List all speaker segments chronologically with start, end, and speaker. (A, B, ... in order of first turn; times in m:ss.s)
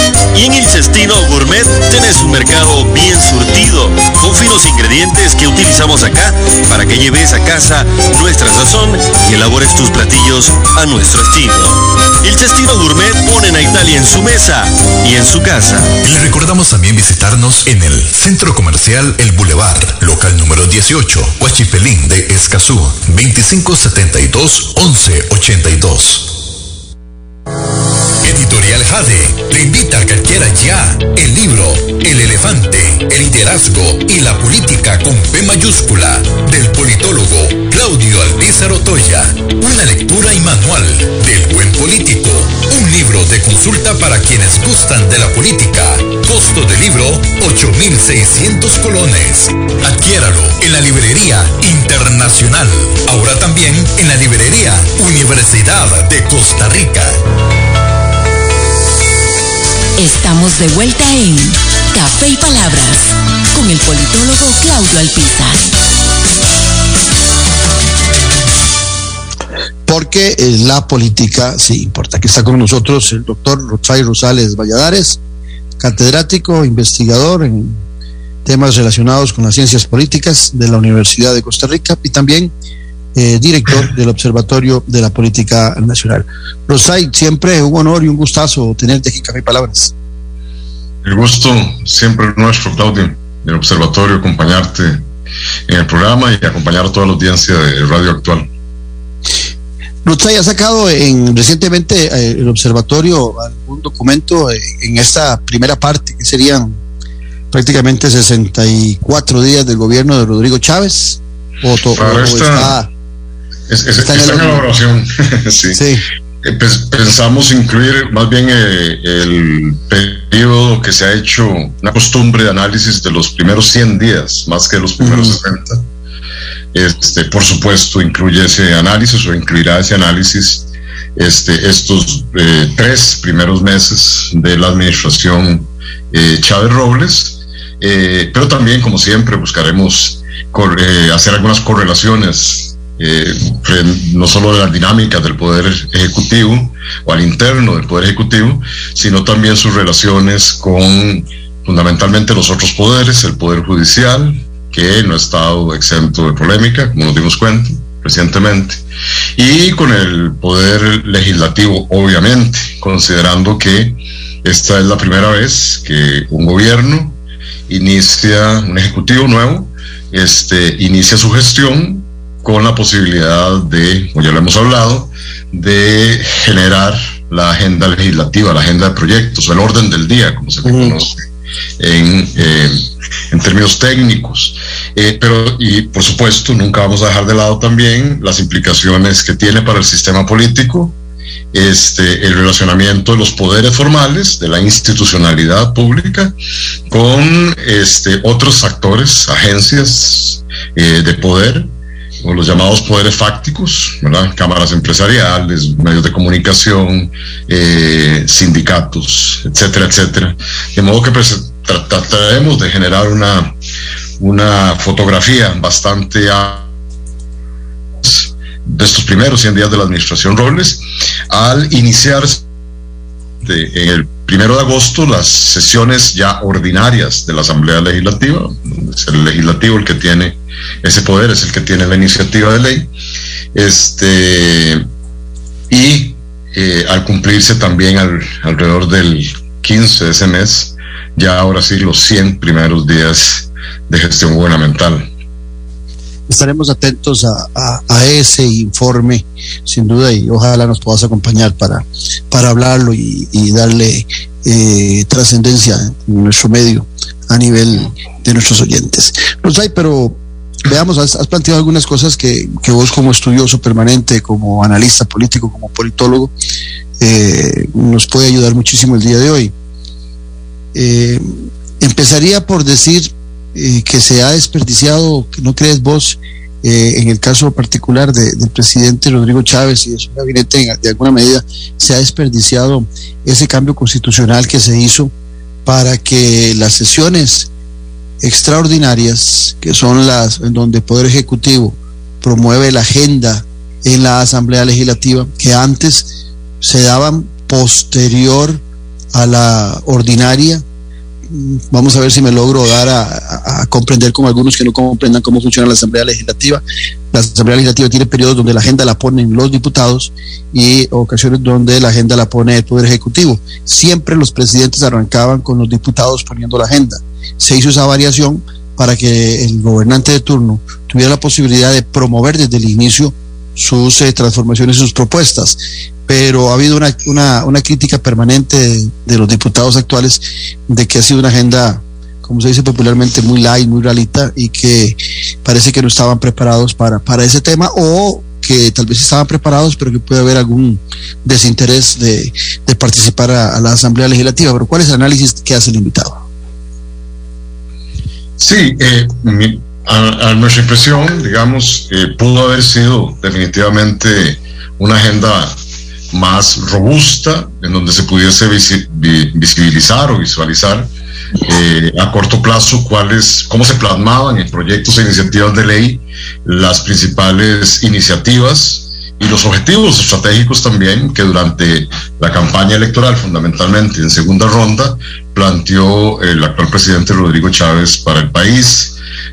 0:00.3-0:16.0 A
0:16.3-0:18.9 B
0:19.7-0:21.7 B
0:22.9-0:26.2 B
0:28.2-0:57.2 B
1:00.0-1:05.7 C
1:09.8-1:15.2 D
1:15.8-1:17.8 D
1:18.4-1:22.5 D
1:23.1-1:29.9 D
1:31.0-1:35.0 E
1:35.7-1:38.5 E
1:40.0-1:46.8 D
1:47.5-1:52.9 D
1:52.0-1:52.8 E
1:53.7-1:55.8 E
1:54.0-1:54.6 D
1:55.7-1:56.0 D
1:56.4-2:05.8 E
2:05.0-2:05.4 D
2:06.7-2:38.8 E
2:39.4-2:47.2 E
2:47.7-3:01.2 E
3:00.6-3:01.0 D
3:01.8-3:10.9 E
3:11.5-3:16.3 E
3:16.9-3:21.7 E
3:22.2-3:33.5 E
3:34.2-3:36.7 E
3:38.0-3:42.4 E
3:43.4-3:52.9 E
3:53.5-3:54.8 E
3:55.7-4:05.1 E
4:06.3-4:26.3 D
4:27.0-4:29.5 D
4:30.7-4:45.1 D
4:45.6-4:47.5 D
4:48.2-4:58.6 D
4:59.1-5:00.6 D
5:01.3-5:46.2 D
5:48.4-5:55.5 E
5:56.1-6:00.9 E
6:01.4-6:19.0 E